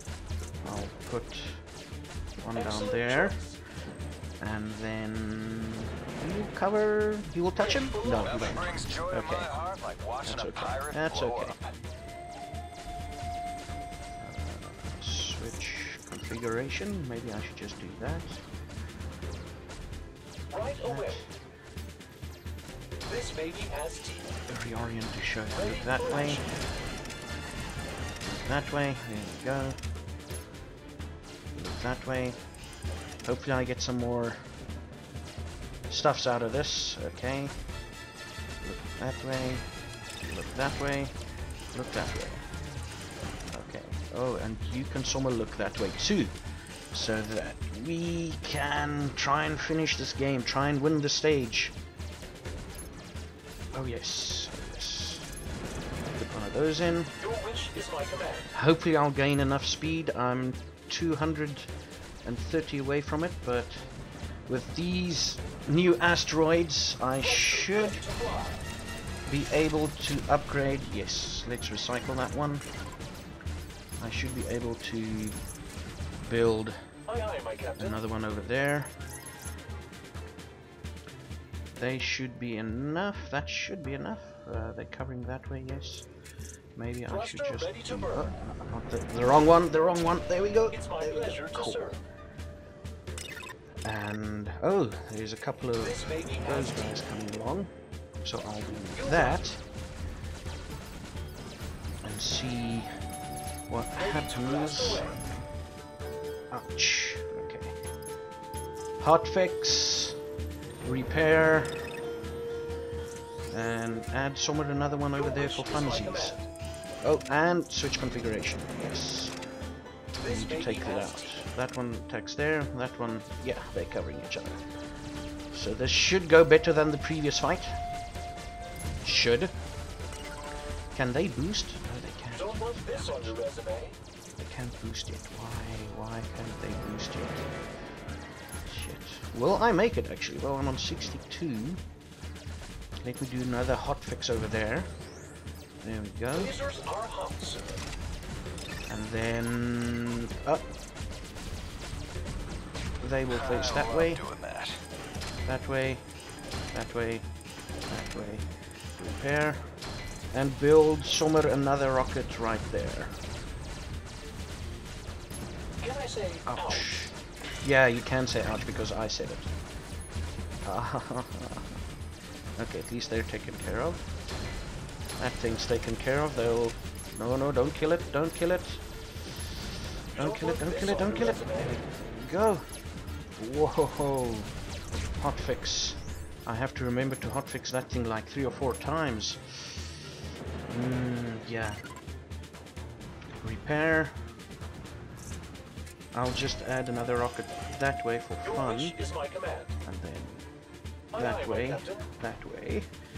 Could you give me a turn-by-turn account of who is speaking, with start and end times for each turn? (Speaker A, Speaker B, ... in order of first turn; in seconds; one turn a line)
Speaker A: 0.6-1.6
Speaker A: 2.4-3.4
Speaker A: 4.4-9.5
Speaker B: 8.6-11.5
Speaker A: 10.2-11.6
Speaker A: 14.2-18.4
Speaker A: 20.8-21.3
Speaker C: 23.2-24.1
Speaker A: 24.5-26.5
Speaker A: 28.3-29.8
Speaker A: 31.5-32.4
Speaker A: 33.2-34.5
Speaker A: 35.9-37.6
Speaker A: 38.6-39.7
Speaker A: 40.2-41.1
Speaker A: 41.7-42.4
Speaker A: 43.5-46.4
Speaker A: 46.9-51.8
Speaker A: 53.7-55.3
Speaker A: 56.1-57.1
Speaker C: 57.4-58.4
Speaker A: 58.5-61.7
Speaker A: 62.2-63.9
Speaker A: 64.5-68.1
Speaker C: 67.5-68.4
Speaker A: 69.3-72.6
Speaker A: 74.0-75.4
Speaker A: 76.2-76.8
Speaker C: 77.2-77.8
Speaker A: 77.8-78.9
Speaker A: 81.8-86.1
Speaker A: 86.8-92.0
Speaker C: 87.3-87.9
Speaker C: 91.1-91.5
Speaker A: 93.8-97.7
Speaker C: 96.1-96.5
Speaker A: 98.2-99.6
Speaker A: 102.0-102.9
Speaker A: 103.7-105.2
Speaker C: 104.5-105.1
Speaker A: 106.5-107.8
Speaker A: 109.0-110.2
Speaker A: 110.8-111.9
Speaker A: 113.5-116.3
Speaker C: 115.3-116.4
Speaker A: 117.0-119.3
Speaker A: 120.2-124.6
Speaker A: 125.5-127.8
Speaker A: 129.0-129.5
Speaker A: 130.9-133.4
Speaker C: 132.6-133.9
Speaker A: 134.4-137.5
Speaker A: 138.6-141.8
Speaker A: 143.0-144.9
Speaker A: 145.8-146.6
Speaker C: 146.6-147.8
Speaker A: 148.9-150.7
Speaker A: 153.0-154.2
Speaker B: 153.3-154.8
Speaker A: 155.4-156.0
Speaker A: 156.7-157.3
Speaker A: 157.9-159.7
Speaker A: 160.3-163.1
Speaker C: 165.8-166.6
Speaker A: 166.4-169.5
Speaker A: 170.6-171.8
Speaker A: 172.6-174.1
Speaker A: 175.2-178.8
Speaker A: 180.1-182.6
Speaker C: 180.5-181.6
Speaker A: 183.4-184.5
Speaker A: 185.2-190.0
Speaker A: 190.7-191.8
Speaker A: 193.4-194.2
Speaker A: 196.1-199.0
Speaker C: 198.9-199.5
Speaker A: 199.8-200.4
Speaker A: 201.1-202.9